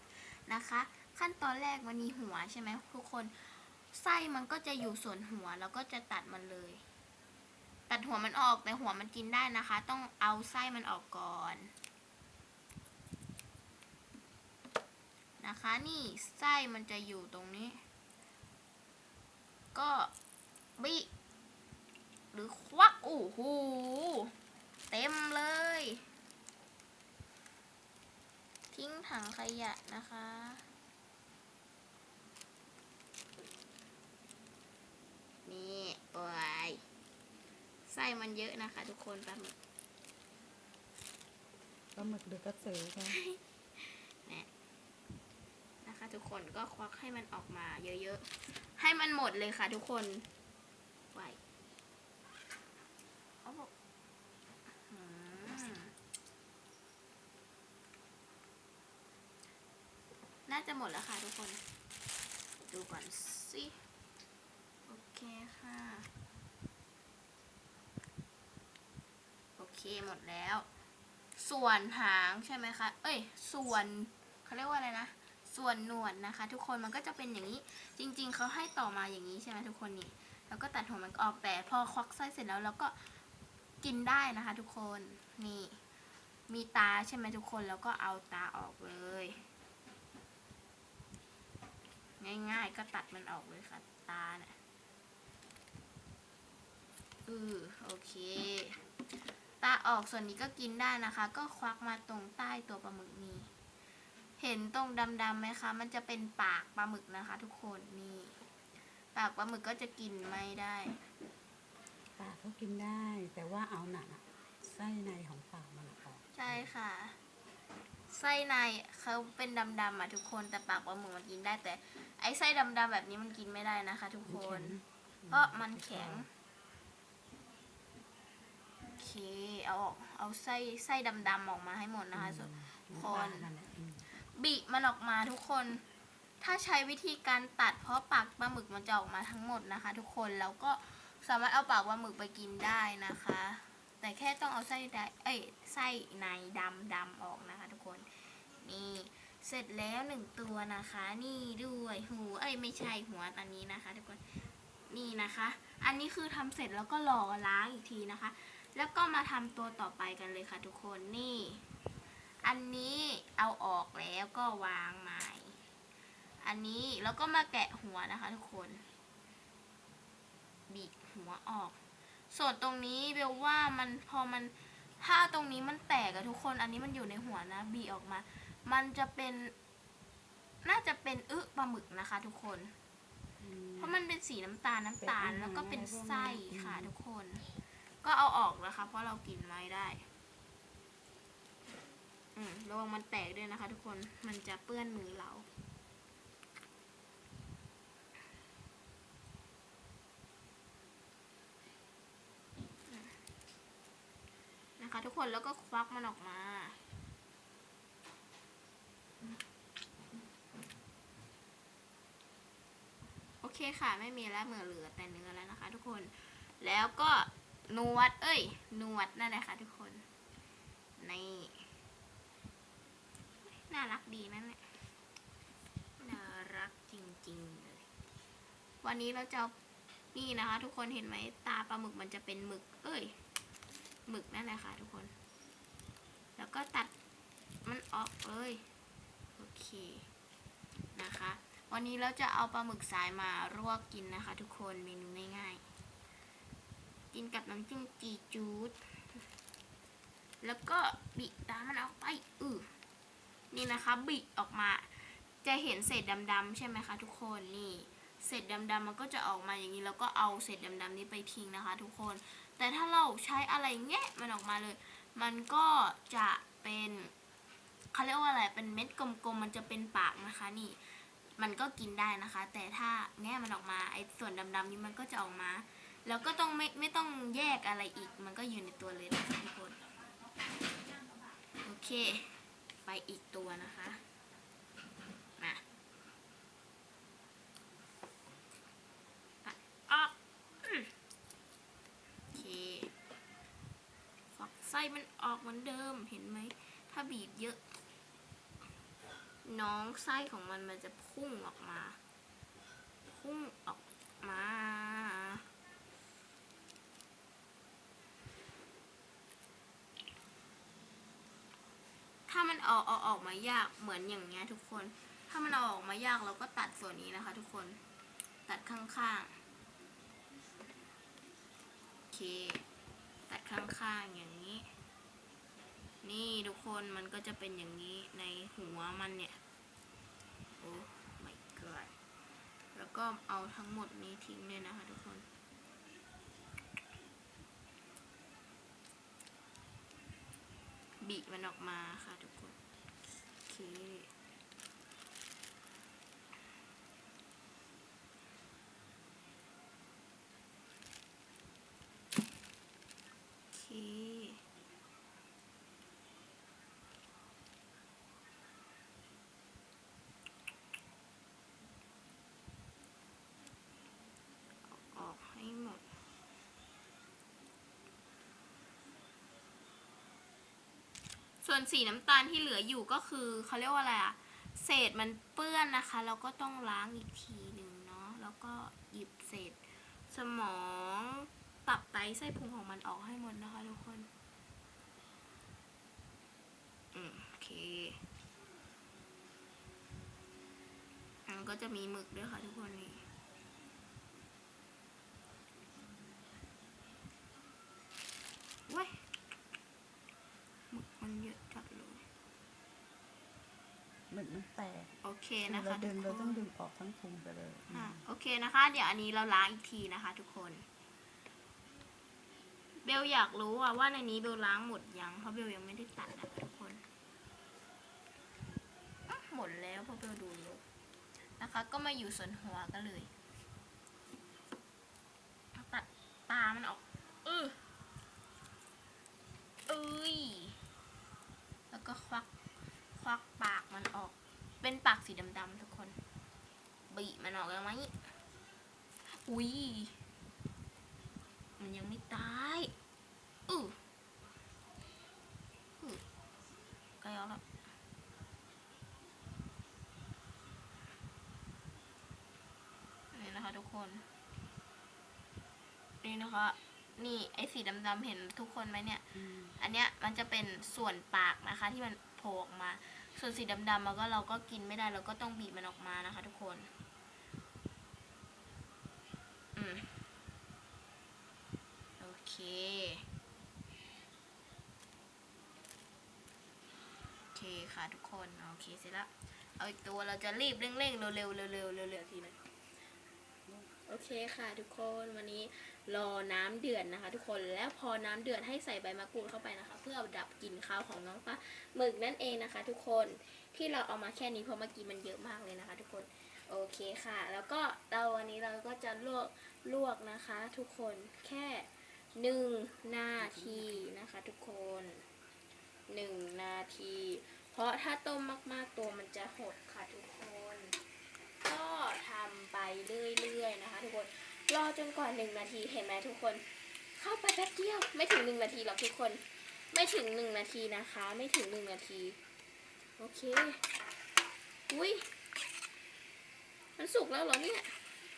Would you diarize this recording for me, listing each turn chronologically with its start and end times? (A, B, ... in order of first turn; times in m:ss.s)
0:00.2-0:06.8 A
0:07.9-0:11.7 A
0:15.4-0:17.8 A
0:19.7-0:20.1 A
0:20.8-0:21.1 A
0:22.3-0:24.3 A
0:24.9-0:26.0 A
0:28.7-0:30.6 A
0:35.4-0:36.8 A
0:37.9-0:39.6 A
0:41.9-0:43.2 B
0:43.1-0:44.5 A
0:45.8-0:50.3 A
0:51.1-0:51.4 A
0:53.4-0:53.7 A
0:54.9-0:55.9 A
1:00.5-1:01.6 A
1:02.7-1:03.8 A
1:04.9-1:06.1 A
1:09.6-1:10.7 A
1:11.4-1:23.1 A
1:23.8-1:25.8 A
1:26.5-1:29.5 A
1:32.2-1:34.5 A
1:37.3-1:38.8 A
1:39.6-1:43.5 A
1:44.4-1:48.3 A
1:49.1-1:51.0 A
1:52.2-1:56.6 B
1:56.4-1:57.2 A
1:58.1-2:04.8 A
2:04.3-2:06.2 B
2:05.3-2:06.3 A
2:09.0-2:13.5 A
2:12.1-2:14.1 B
2:14.1-2:15.8 A
2:16.4-2:34.2 A
2:34.9-2:41.6 A
2:42.4-2:45.6 A
2:46.4-2:48.8 A
2:50.7-2:51.8 A
2:52.3-2:59.5 A
3:00.6-3:02.7 A
3:03.4-3:04.0 B
3:03.8-3:07.4 A
3:05.0-3:06.9 B
3:08.0-3:10.0 A
3:12.4-3:15.5 A
3:24.8-3:26.8 A
3:33.4-3:40.0 A
3:41.0-3:41.6 A
3:43.5-3:44.6 A
3:46.0-3:47.9 A
3:48.8-3:49.5 A
3:50.1-3:53.1 A
3:54.1-3:55.1 A
3:56.4-3:56.9 A
3:57.7-3:58.6 A
3:59.4-4:00.1 A
4:01.0-4:05.6 A
4:07.1-4:08.8 A
4:10.4-4:12.7 A
4:13.5-4:27.1 A
4:27.9-4:30.8 A
4:31.4-4:39.8 A
4:41.6-4:44.0 A
4:49.4-4:50.9 A
4:52.3-4:52.9 A
4:54.3-4:57.6 A
4:59.4-5:02.0 A
5:03.1-5:05.4 A
5:12.3-5:17.8 A
5:18.5-5:19.3 A
5:22.1-5:22.6 A
5:23.3-5:24.7 A
5:26.0-5:29.4 A
5:30.6-5:31.9 A
5:32.7-5:35.3 A
5:41.0-5:42.6 A
5:43.5-5:44.1 A
5:53.5-5:54.4 A
6:04.7-6:05.8 A
6:11.4-6:24.1 A
6:26.9-6:28.0 A
6:31.3-6:33.0 A
6:38.7-6:39.0 A
6:40.7-6:42.0 A
6:44.1-6:44.9 B
6:45.0-6:46.4 A
6:45.5-6:48.0 B
6:47.7-6:50.6 A
6:52.8-6:56.8 A
6:59.1-7:00.6 A
7:01.4-7:03.1 A
7:05.6-7:07.6 A
7:09.7-7:10.6 A
7:11.7-7:12.3 A
7:13.0-7:16.0 A
7:16.9-7:18.0 A
7:19.1-7:20.0 A
7:21.6-7:22.7 A
7:23.5-7:23.8 A
7:27.0-7:27.4 A
7:33.1-7:34.0 A
7:36.0-7:39.0 A
7:39.1-7:39.5 B
7:39.6-7:46.7 A
7:49.6-7:50.0 A
7:52.0-7:53.0 A
7:57.3-8:02.4 A
8:03.9-8:25.0 A
8:23.2-8:23.9 B
8:25.9-8:30.8 A
8:31.4-8:36.4 A
8:37.0-8:42.2 A
8:43.0-8:43.6 A
8:44.7-8:45.1 A
8:46.8-8:47.8 A